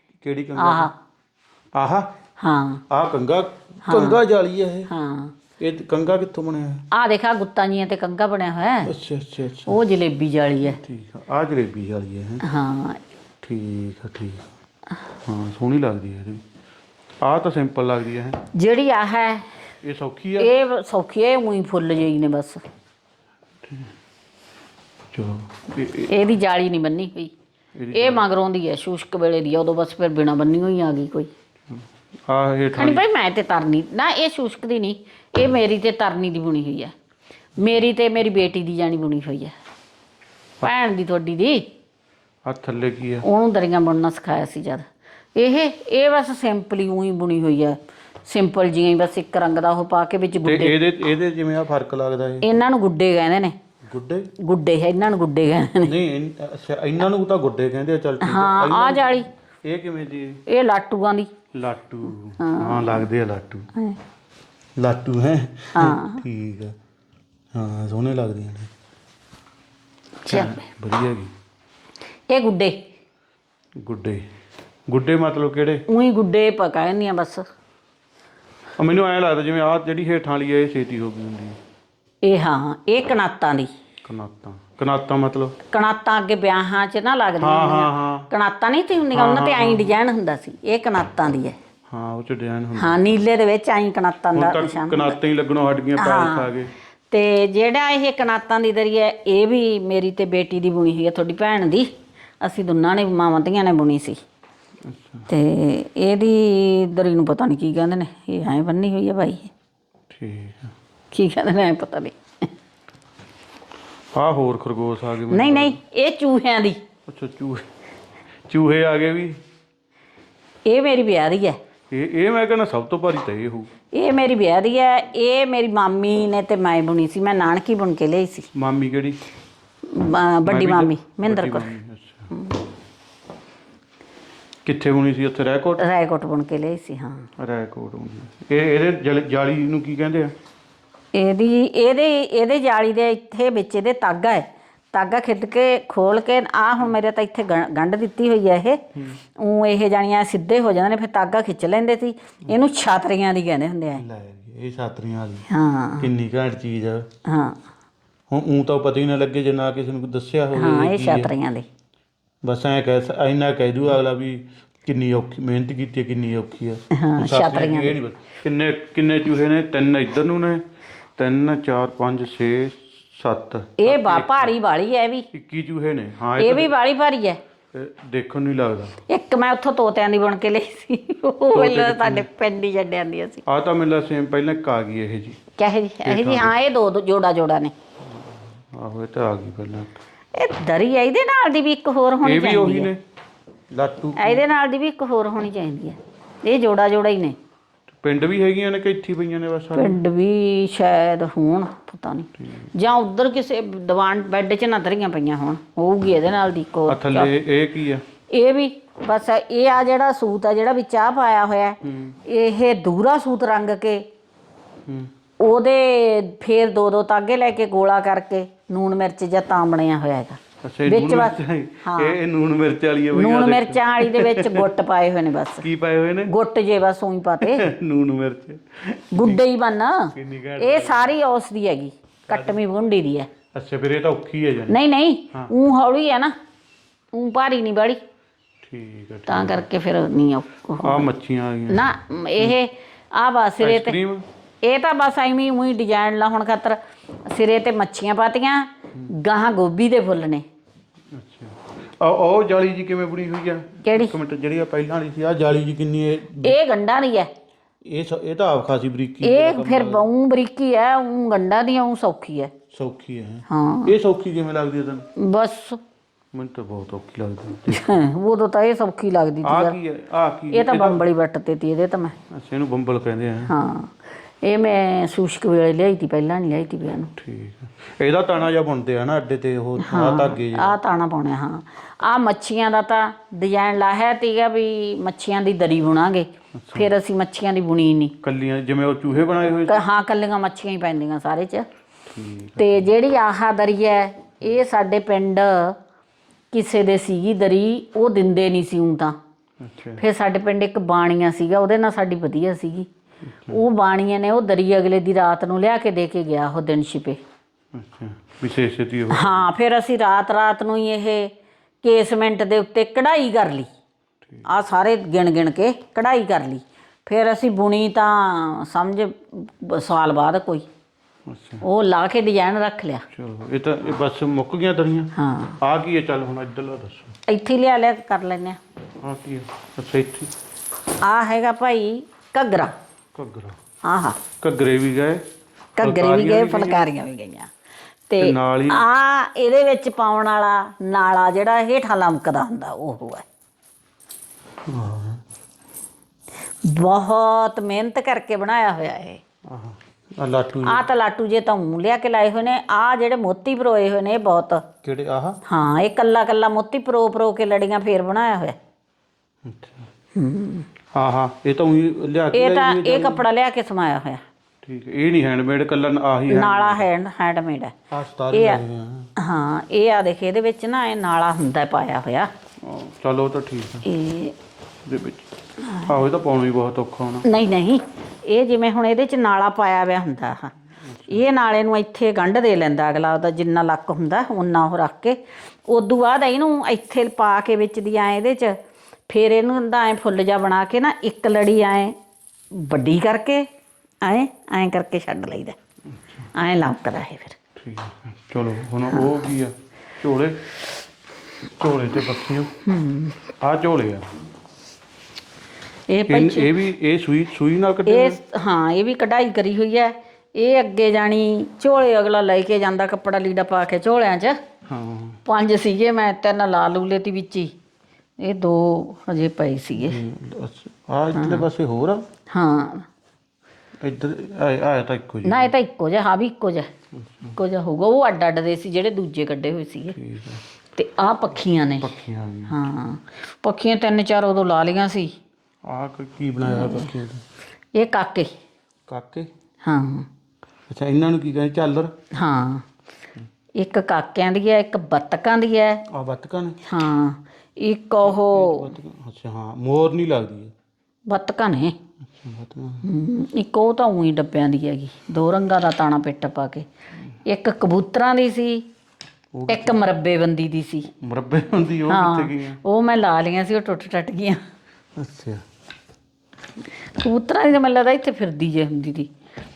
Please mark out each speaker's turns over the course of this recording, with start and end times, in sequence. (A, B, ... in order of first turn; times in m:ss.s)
0:00.1-0:00.9 A
0:00.6-0:01.0 B
0:01.7-0:02.1 A
0:02.4-0:02.8 B
0:02.9-0:04.9 A
0:03.8-0:04.2 B
0:04.9-0:05.4 B
0:05.5-0:06.9 A
0:06.9-0:08.9 B
0:08.8-0:09.8 A
0:09.7-0:10.8 B
0:10.6-0:12.4 A
0:12.4-0:13.0 B
0:13.4-0:14.4 A
0:15.2-0:16.4 A
0:17.2-0:18.4 A
0:18.5-0:19.5 B
0:19.8-0:20.5 A
0:20.4-0:22.6 B
0:23.6-0:23.9 A
0:25.1-0:26.2 A
0:26.0-0:27.3 B
0:27.7-0:28.3 A
0:27.9-0:31.3 B
0:31.7-0:33.1 A
0:32.7-0:36.9 B
0:37.6-0:39.5 B
0:40.6-0:41.7 B
0:42.4-0:43.2 A
0:43.2-0:50.8 B
0:50.4-0:52.4 A
0:52.4-0:53.5 B
0:53.8-0:54.3 A
0:54.3-0:55.9 B
0:55.8-1:00.4 A
0:58.2-0:59.3 B
1:00.5-1:01.4 B
1:01.5-1:03.7 A
1:02.4-1:03.1 B
1:04.8-1:06.7 A
1:05.7-1:06.2 B
1:07.5-1:08.7 A
1:10.2-1:10.6 B
1:10.3-1:11.3 A
1:12.3-1:12.8 B
1:13.8-1:14.3 A
1:14.9-1:15.8 A
1:15.9-1:17.5 B
1:18.8-1:21.6 A
1:22.2-1:23.7 B
1:24.0-1:25.6 A
1:25.6-1:31.6 B
1:27.4-1:28.3 A
1:29.1-1:30.0 A
1:31.9-1:33.1 A
1:32.8-1:35.2 B
1:34.3-1:36.7 A
1:36.0-1:36.5 B
1:37.1-1:44.2 B
1:44.8-1:45.3 A
1:45.3-1:49.5 B
1:50.1-1:50.7 A
1:51.1-1:52.2 B
1:54.1-1:55.8 A
1:55.3-1:56.8 B
1:57.0-1:57.7 A
1:58.5-1:59.4 A
2:00.6-2:01.6 B
2:01.9-2:03.8 A
2:03.9-2:08.5 B
2:08.5-2:09.2 A
2:09.8-2:11.7 B
2:10.4-2:12.3 A
2:12.3-2:12.6 B
2:14.6-2:15.8 A
2:15.8-2:17.3 B
2:17.4-2:20.3 A
2:21.1-2:34.0 B
2:28.9-2:29.2 A
2:34.0-2:35.5 A
2:35.5-2:36.1 B
2:36.0-2:37.1 A
2:37.2-2:37.6 B
2:38.3-2:41.3 A
2:40.5-2:41.7 B
2:42.4-2:50.6 A
2:46.9-2:47.9 B
2:51.2-2:54.6 A
2:53.8-2:55.2 B
2:55.3-2:56.8 A
2:56.4-2:57.4 B
2:57.7-2:59.0 A
2:59.0-3:03.4 B
3:01.5-3:02.3 A
3:03.5-3:05.5 A
3:05.5-3:07.7 B
3:06.0-3:06.6 A
3:08.7-3:10.0 A
3:10.3-3:12.9 B
3:12.2-3:13.0 A
3:13.7-3:14.4 A
3:14.2-3:17.4 B
3:17.9-3:20.0 A
3:19.8-3:27.3 B
3:22.4-3:22.7 A
3:26.9-3:28.1 A
3:28.2-3:34.0 B
3:31.8-3:32.2 A
3:34.8-3:35.1 A
3:35.4-3:42.2 B
3:40.5-3:44.7 A
3:43.1-3:45.7 B
3:45.6-3:46.3 A
3:46.3-3:47.6 B
3:47.4-3:49.4 A
3:49.1-3:53.4 B
3:50.1-3:51.2 A
3:52.2-3:52.6 A
3:53.5-3:54.8 A
3:54.7-3:56.3 B
3:57.1-3:58.0 B
3:58.6-3:59.6 A
3:59.3-4:01.1 B
4:00.8-4:02.6 A
4:01.7-4:04.0 B
4:03.6-4:04.2 A
4:04.6-4:10.4 B
4:11.1-4:16.6 A
4:13.8-4:14.1 B
4:16.4-4:17.3 B
4:17.8-4:20.0 A
4:19.2-4:22.6 B
4:22.7-4:25.1 A
4:23.5-4:23.9 B
4:25.2-4:25.8 B
4:26.3-4:28.0 A
4:27.7-4:29.8 B
4:29.4-4:31.0 A
4:30.5-4:32.2 B
4:32.3-4:33.5 A
4:33.5-4:37.1 B
4:37.2-4:40.8 A
4:39.8-4:48.2 B
4:46.5-4:46.9 A
4:48.2-4:49.8 A
4:49.7-4:51.6 B
4:52.1-4:52.9 A
4:52.6-4:55.8 B
4:56.5-4:59.2 B
4:59.6-5:00.0 A
5:00.0-5:02.9 B
5:03.3-5:03.6 A
5:03.5-5:07.2 B
5:07.7-5:09.5 A
5:09.1-5:13.7 B
5:14.4-5:20.7 B
5:21.3-5:21.6 A
5:21.6-5:23.0 B
5:23.1-5:27.1 A
5:25.1-5:25.6 B
5:27.3-5:28.6 B
5:29.0-5:30.3 A
5:31.0-5:32.7 B
5:33.1-5:33.6 A
5:33.8-5:34.3 B
5:34.3-5:35.2 A
5:35.8-5:37.5 B
5:35.8-5:36.8 A
5:38.1-5:43.2 B
5:38.2-5:38.8 A
5:44.6-5:45.2 A
5:46.6-5:49.2 B
5:49.4-5:50.9 A
5:50.6-5:54.7 B
5:54.8-5:55.4 A
5:55.4-5:58.6 B
5:59.4-5:59.9 A
6:00.1-6:00.7 B
6:00.9-6:03.2 A
6:02.3-6:04.2 B
6:04.6-6:06.9 A
6:06.3-6:07.7 B
6:07.9-6:09.1 A
6:08.3-6:08.6 B
6:09.2-6:12.3 B
6:12.6-6:13.9 A
6:13.8-6:14.4 B
6:14.8-6:17.2 A
6:15.6-6:15.9 B
6:17.2-6:20.5 B
6:20.8-6:21.2 A
6:21.1-6:28.6 B
6:29.1-6:32.0 B
6:32.5-6:33.5 B
6:34.0-6:35.6 B
6:36.3-6:37.4 B
6:37.5-6:40.4 A
6:38.9-6:39.3 B
6:41.6-6:42.6 A
6:42.6-6:43.3 B
6:43.4-6:44.1 A
6:45.9-6:46.6 B
6:46.1-6:48.2 A
6:47.8-6:54.4 B
6:54.6-6:55.2 A
6:55.2-6:57.5 B
6:58.2-7:00.0 B
6:59.8-7:02.0 A
7:01.1-7:01.5 B
7:02.3-7:02.9 B
7:03.8-7:05.5 A
7:05.2-7:06.7 B
7:07.1-7:07.4 A
7:07.4-7:10.0 B
7:09.9-7:10.4 A
7:10.7-7:11.9 B
7:11.8-7:12.6 A
7:12.5-7:15.2 B
7:15.7-7:17.2 A
7:16.5-7:16.9 B
7:17.7-7:18.3 B
7:18.9-7:19.3 A
7:19.6-7:20.1 B
7:20.7-7:21.9 A
7:22.1-7:22.6 B
7:23.6-7:25.8 B
7:25.9-7:26.6 A
7:26.6-7:28.7 B
7:28.0-7:30.5 A
7:31.1-7:31.8 B
7:32.1-7:32.9 A
7:32.8-7:36.7 B
7:37.2-7:38.6 B
7:39.3-7:39.8 A
7:39.5-7:40.9 B
7:40.9-7:42.6 A
7:41.9-7:44.4 B
7:45.0-7:45.4 A
7:46.9-7:49.1 B